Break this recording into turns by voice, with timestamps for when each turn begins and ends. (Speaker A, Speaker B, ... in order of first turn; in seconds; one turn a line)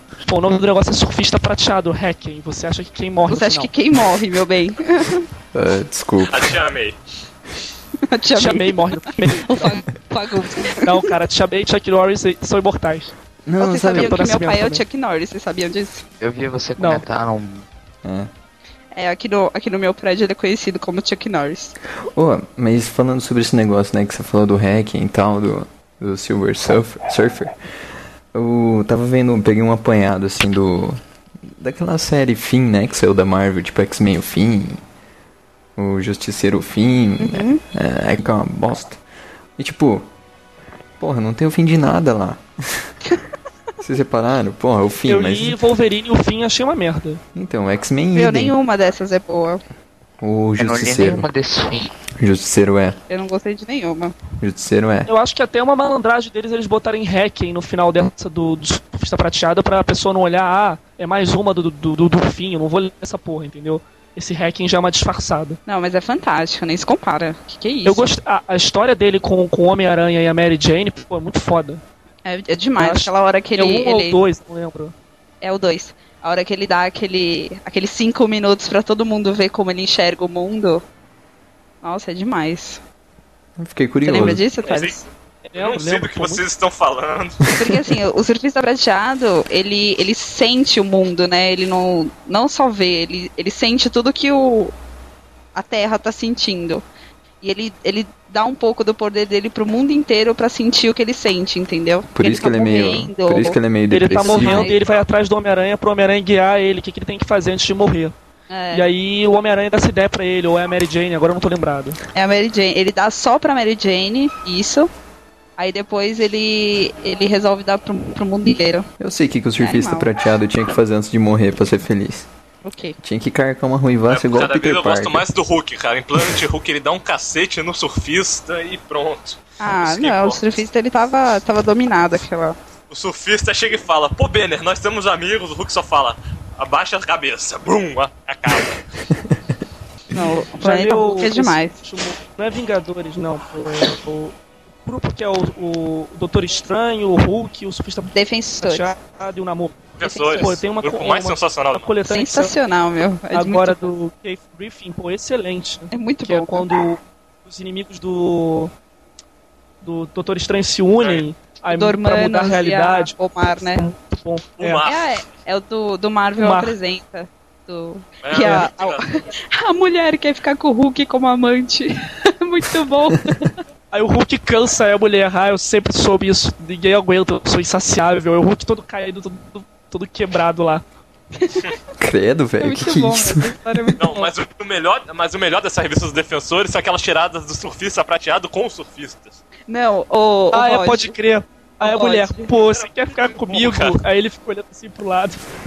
Speaker A: 0.2-3.7
Speaker B: 3.3-5.3
Speaker C: 5.5-6.6
Speaker D: 6.3-7.0
Speaker B: 8.1-8.8
Speaker A: 8.4-9.8
Speaker B: 9.3-11.1
Speaker A: 10.8-13.1
Speaker C: 13.5-14.2
Speaker B: 13.6-16.0
Speaker A: 13.9-14.8
Speaker E: 16.2-17.7
Speaker A: 16.8-17.0
Speaker C: 18.0-18.3
Speaker B: 18.9-21.8
Speaker C: 22.1-27.6
Speaker C: 28.3-34.8
Speaker C: 35.8-39.0
Speaker B: 37.2-37.6
Speaker C: 39.6-40.1
Speaker C: 41.0-42.9
Speaker C: 43.8-45.6
Speaker A: 45.1-47.2
Speaker C: 47.4-48.5
Speaker B: 48.1-49.6
Speaker C: 50.2-51.3
Speaker E: 50.6-51.9
Speaker C: 52.2-53.0
Speaker B: 53.1-54.1
Speaker C: 54.4-55.1
Speaker A: 55.1-65.6
Speaker B: 65.7-68.1
Speaker A: 67.8-71.8
Speaker B: 72.2-74.2
Speaker A: 72.8-74.9
Speaker B: 75.4-80.8
Speaker B: 81.8-82.8
Speaker C: 83.6-84.4
Speaker B: 84.0-85.0
Speaker D: 84.7-85.0
Speaker A: 85.5-86.4
Speaker D: 85.5-87.4
Speaker B: 87.6-94.7
Speaker B: 95.5-96.8
Speaker B: 97.4-103.6
Speaker C: 102.1-104.7
Speaker A: 103.9-108.2
Speaker B: 104.2-104.8
Speaker D: 104.7-105.0
Speaker B: 108.5-108.9
Speaker A: 108.7-112.0
Speaker B: 112.1-114.9
Speaker B: 115.6-118.9
Speaker C: 119.0-122.3
Speaker B: 119.6-120.1
Speaker B: 122.6-123.0
Speaker C: 123.0-125.2
Speaker D: 124.1-130.5
Speaker B: 129.6-132.6
Speaker D: 132.9-138.8
Speaker B: 140.1-141.8
Speaker A: 140.6-152.5
Speaker B: 148.1-148.9
Speaker D: 150.0-151.9
Speaker B: 150.0-150.5
Speaker B: 152.1-153.8
Speaker A: 153.3-158.7
Speaker B: 155.9-156.7
Speaker A: 159.8-164.9
Speaker D: 161.0-161.2
Speaker B: 161.7-163.8
Speaker D: 164.6-165.1
Speaker B: 164.8-173.6
Speaker A: 166.4-166.8
Speaker D: 168.2-169.2
Speaker A: 168.4-168.7
Speaker A: 173.9-180.8
Speaker B: 181.4-181.7
Speaker C: 182.0-183.5
Speaker B: 182.6-184.3
Speaker D: 184.0-189.4
Speaker B: 189.7-191.1
Speaker A: 190.5-195.4
Speaker B: 191.8-192.5
Speaker D: 192.7-194.0